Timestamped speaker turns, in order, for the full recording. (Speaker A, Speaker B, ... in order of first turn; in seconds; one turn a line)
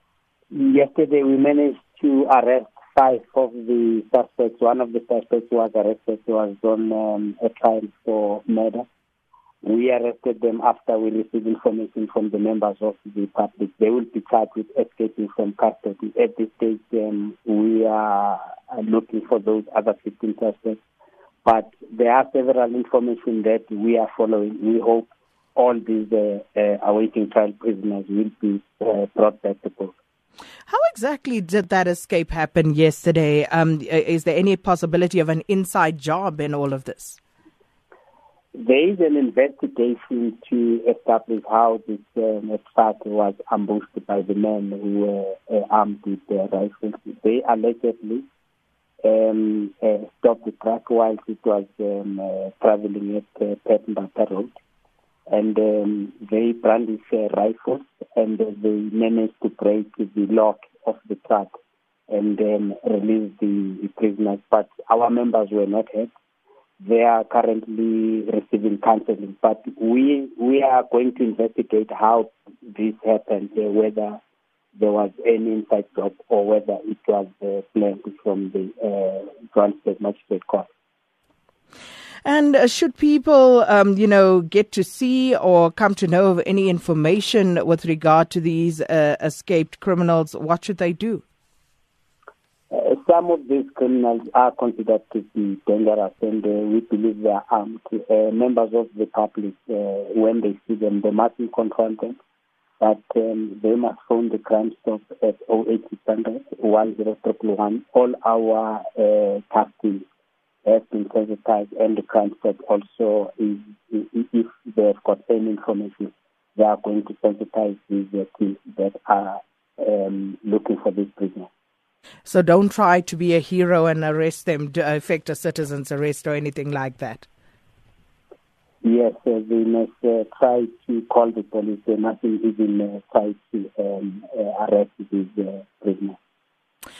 Speaker A: 0.5-8.8
Speaker A: 9.6-20.8
Speaker A: 21.4-29.9
Speaker B: 30.7-37.2
Speaker A: 38.5-48.2
Speaker A: 49.0-54.5
Speaker A: 55.3-61.5
Speaker A: 62.1-66.1
Speaker A: 66.8-74.2
Speaker A: 74.7-80.7
Speaker B: 82.2-91.2
Speaker A: 92.7-102.2
Speaker A: 102.8-110.0
Speaker A: 110.6-121.5
Speaker B: 122.2-127.3
Speaker A: 128.8-136.2